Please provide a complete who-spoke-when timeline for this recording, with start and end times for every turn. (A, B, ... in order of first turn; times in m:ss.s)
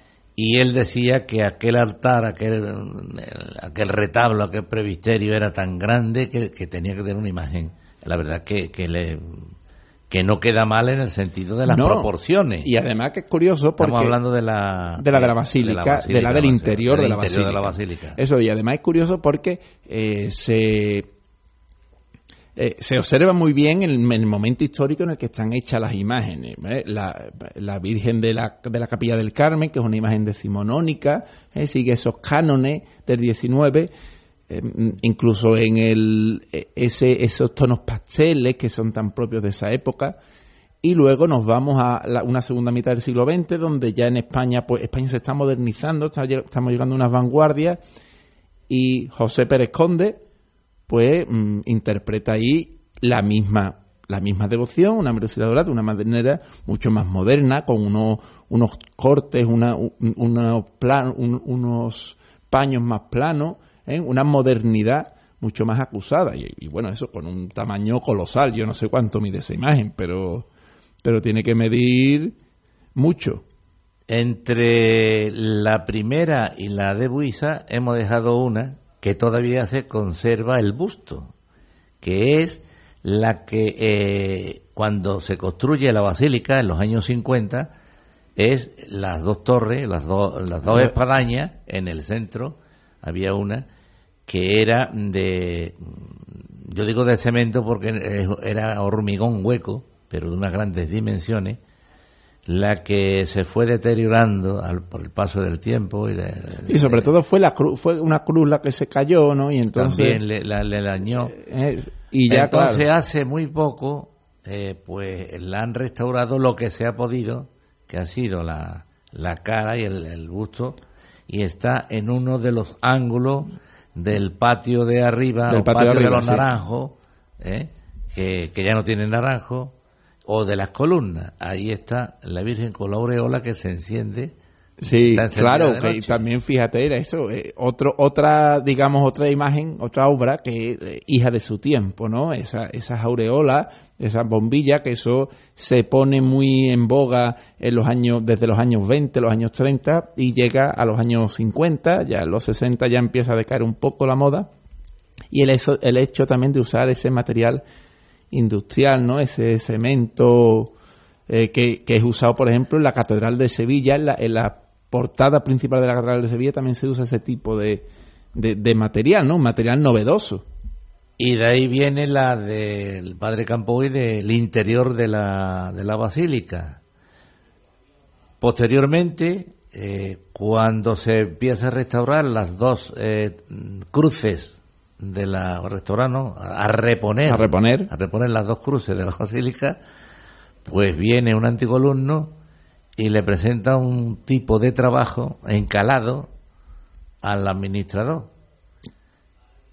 0:00.4-0:09.5 A
0:10.1-0:12.7 A
0:11.6-0:12.1 B
0:12.6-0:14.2 B
0:13.8-0:18.2 A
0:15.0-0:21.1 B
0:22.6-0:33.9 B
0:34.5-0:40.2 B
0:40.8-0:47.8 B
0:48.7-0:50.2 B
0:50.9-1:10.5 B
1:11.0-1:12.3 B
1:13.0-1:13.4 B
1:14.1-1:21.3 A
1:22.0-1:27.7 A
1:28.4-1:33.7 A
1:30.7-1:30.9 B
1:34.3-1:41.6 A
1:42.5-1:47.1 A
1:46.7-1:50.2 B
1:49.7-1:51.4 A
1:51.3-1:52.9 B
1:52.3-2:09.8 A
2:05.5-2:06.5 B
2:10.3-2:14.4 A
2:14.8-2:34.5 B
2:15.0-2:16.2 A
2:35.3-2:37.6 B
2:38.3-2:40.7 B
2:41.3-2:50.4 B
2:51.2-2:56.8 A
2:58.4-3:09.8 A
3:07.3-3:07.9 B
3:10.6-3:12.3 A
3:13.0-3:16.3 A
3:17.2-3:18.3 A